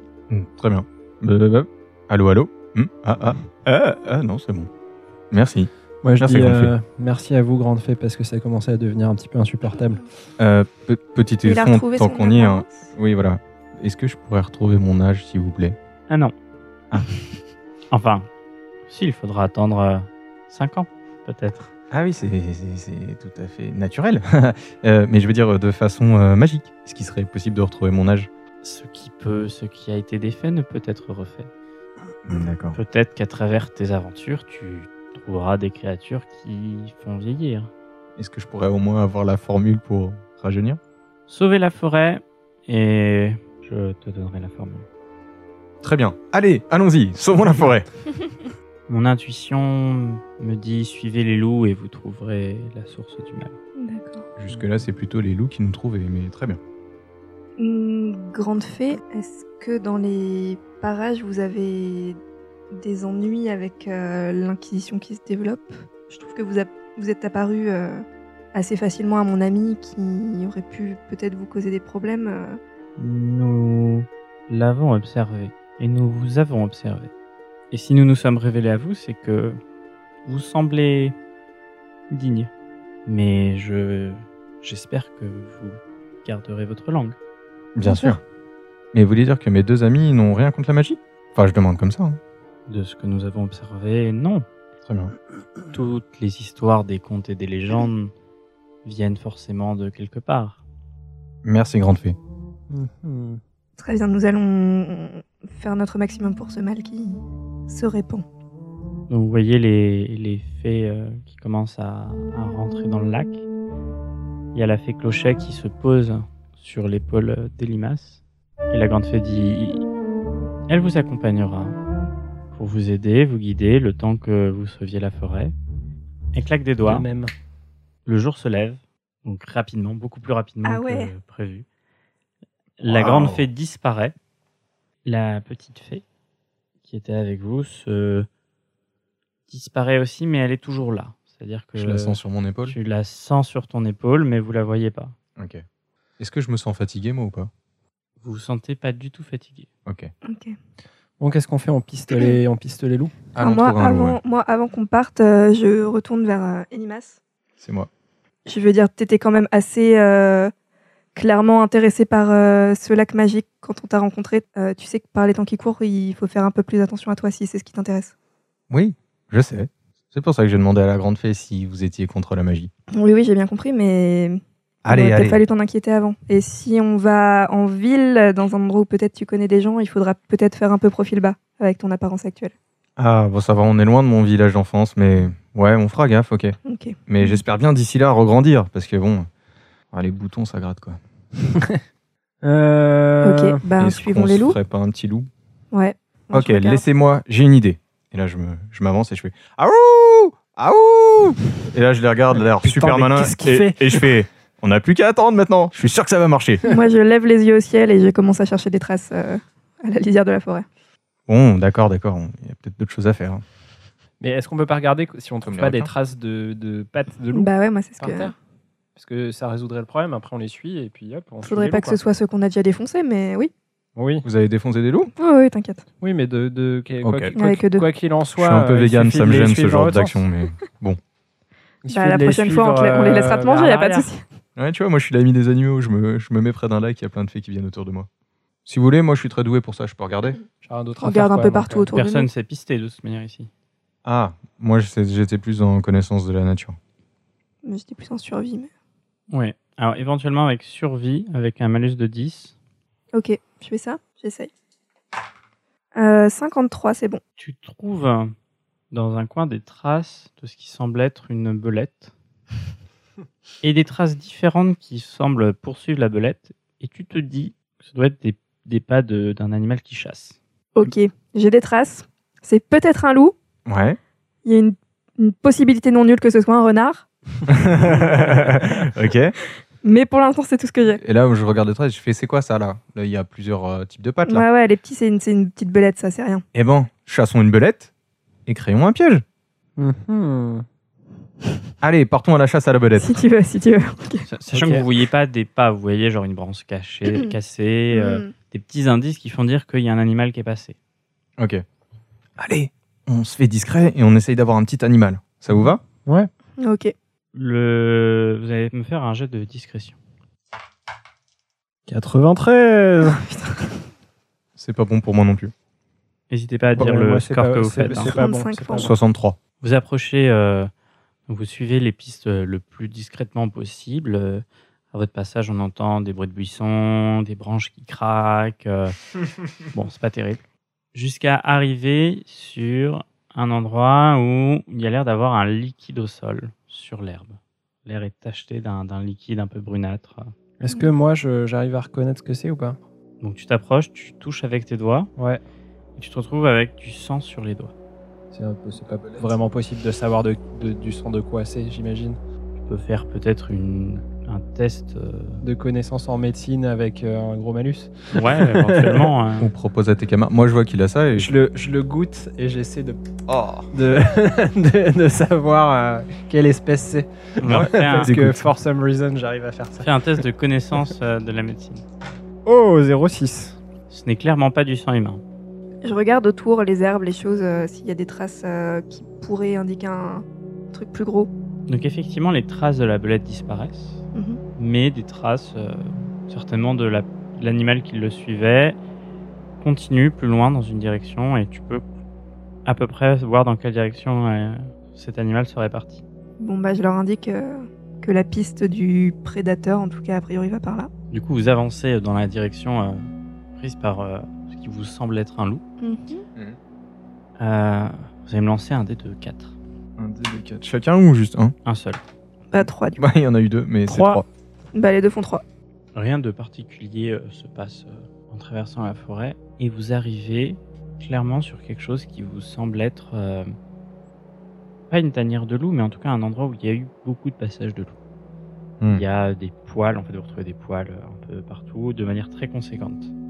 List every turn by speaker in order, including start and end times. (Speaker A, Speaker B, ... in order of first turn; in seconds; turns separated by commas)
Speaker A: 0.3-4.7, Speaker A: 5.3-6.7, Speaker B: 6.0-10.0, Speaker A: 10.4-15.8, Speaker C: 11.4-12.9, Speaker D: 16.1-16.3, Speaker D: 17.9-18.3, Speaker D: 18.9-21.7, Speaker A: 21.9-28.3, Speaker D: 28.6-31.5, Speaker A: 32.3-32.8, Speaker D: 32.8-37.7, Speaker A: 38.1-40.8, Speaker D: 41.3-44.9, Speaker A: 45.8-47.9, Speaker D: 48.9-53.6, Speaker C: 53.8-54.2, Speaker A: 54.4-56.6, Speaker C: 57.6-62.2, Speaker C: 62.7-72.6, Speaker D: 73.0-77.1, Speaker D: 77.7-79.6, Speaker D: 80.2-81.1, Speaker D: 82.1-82.5, Speaker D: 83.1-87.2, Speaker A: 87.8-88.2, Speaker C: 87.8-88.2, Speaker A: 88.9-92.2, Speaker D: 92.7-94.5, Speaker A: 94.8-95.1, Speaker D: 95.7-98.1, Speaker D: 98.8-100.6, Speaker A: 101.5-102.2, Speaker B: 102.7-103.4, Speaker C: 103.8-108.2, Speaker D: 109.1-113.4, Speaker D: 114.5-119.8, Speaker D: 120.7-121.8, Speaker D: 122.5-125.5, Speaker D: 126.3-127.1, Speaker B: 126.8-127.3, Speaker D: 128.1-131.6, Speaker C: 130.6-131.1, Speaker D: 132.8-134.1, Speaker A: 132.9-133.5, Speaker D: 135.1-136.0, Speaker D: 136.8-138.3, Speaker D: 139.5-145.1, Speaker A: 141.8-142.8, Speaker A: 145.4-145.6, Speaker A: 146.2-147.5, Speaker D: 148.2-149.7, Speaker A: 149.9-150.1, Speaker C: 150.2-150.6, Speaker B: 151.2-153.2, Speaker A: 153.3-154.2, Speaker C: 153.4-157.2, Speaker A: 157.6-157.9, Speaker C: 158.5-160.5, Speaker C: 161.1-168.1, Speaker A: 168.7-172.7, Speaker C: 172.9-182.5, Speaker A: 174.8-175.4, Speaker A: 183.0-189.3, Speaker C: 186.7-187.4, Speaker A: 189.9-191.0, Speaker B: 192.4-193.6, Speaker C: 193.2-194.6, Speaker A: 193.8-195.3, Speaker C: 195.7-196.8, Speaker A: 196.3-206.6, Speaker B: 202.3-204.1, Speaker C: 206.7-210.7, Speaker A: 211.3-213.4, Speaker B: 214.2-218.3, Speaker A: 215.4-215.9, Speaker C: 217.3-218.3, Speaker B: 218.9-222.0, Speaker C: 221.4-223.5, Speaker B: 224.0-224.3, Speaker A: 224.2-225.1, Speaker C: 225.2-225.8, Speaker B: 226.0-230.2, Speaker A: 227.0-227.4, Speaker C: 227.3-227.9, Speaker A: 228.4-231.0, Speaker B: 231.8-233.9, Speaker C: 231.9-234.2, Speaker D: 233.5-234.1, Speaker A: 234.6-238.1, Speaker A: 238.7-240.4, Speaker B: 240.6-241.9, Speaker C: 241.0-242.3, Speaker D: 241.9-243.5, Speaker A: 244.1-246.8, Speaker C: 247.6-248.7, Speaker D: 249.3-252.6, Speaker C: 253.1-254.5, Speaker C: 256.0-257.2, Speaker D: 257.4-258.3, Speaker D: 258.9-262.1, Speaker D: 263.6-270.4, Speaker C: 270.8-273.4, Speaker A: 273.6-274.0, Speaker C: 274.4-277.1, Speaker A: 277.5-279.4, Speaker C: 279.8-281.0, Speaker A: 281.0-284.4, Speaker C: 284.2-286.4, Speaker A: 286.5-287.9, Speaker A: 288.5-289.2, Speaker B: 289.8-290.6, Speaker A: 291.8-293.2, Speaker C: 293.0-294.2, Speaker D: 294.3-300.8, Speaker B: 294.5-294.8, Speaker C: 297.9-298.3, Speaker A: 301.4-301.6, Speaker A: 302.4-305.8, Speaker B: 305.5-306.3, Speaker C: 306.6-306.9, Speaker D: 307.3-310.0, Speaker B: 311.9-313.2, Speaker C: 313.0-313.8, Speaker A: 314.6-315.5, Speaker D: 316.3-318.1, Speaker B: 316.8-318.9, Speaker C: 318.0-318.9, Speaker A: 318.8-319.4, Speaker D: 319.6-320.7, Speaker D: 321.3-329.0, Speaker D: 329.7-330.4, Speaker D: 330.9-340.3, Speaker B: 340.6-342.8, Speaker D: 343.2-345.1, Speaker D: 346.0-347.7, Speaker B: 348.3-352.2, Speaker D: 352.6-355.4, Speaker B: 355.4-359.1, Speaker D: 358.1-359.5, Speaker A: 359.4-361.3, Speaker B: 361.1-363.0, Speaker A: 363.3-363.7, Speaker B: 363.7-370.2, Speaker D: 367.4-368.1, Speaker A: 367.4-368.5, Speaker D: 369.8-371.8, Speaker B: 372.4-373.6, Speaker D: 373.9-375.2, Speaker C: 375.8-381.3, Speaker D: 381.7-384.0, Speaker D: 384.6-388.8, Speaker D: 389.6-391.8, Speaker D: 392.6-396.0, Speaker C: 396.4-400.9, Speaker D: 401.1-405.6, Speaker C: 405.8-406.2, Speaker D: 407.4-409.6, Speaker A: 410.0-411.5, Speaker D: 411.6-412.0, Speaker C: 412.5-413.1, Speaker A: 413.0-414.2, Speaker D: 413.9-414.2, Speaker C: 414.7-415.4, Speaker D: 415.9-423.6, Speaker D: 424.9-427.9, Speaker D: 428.9-433.1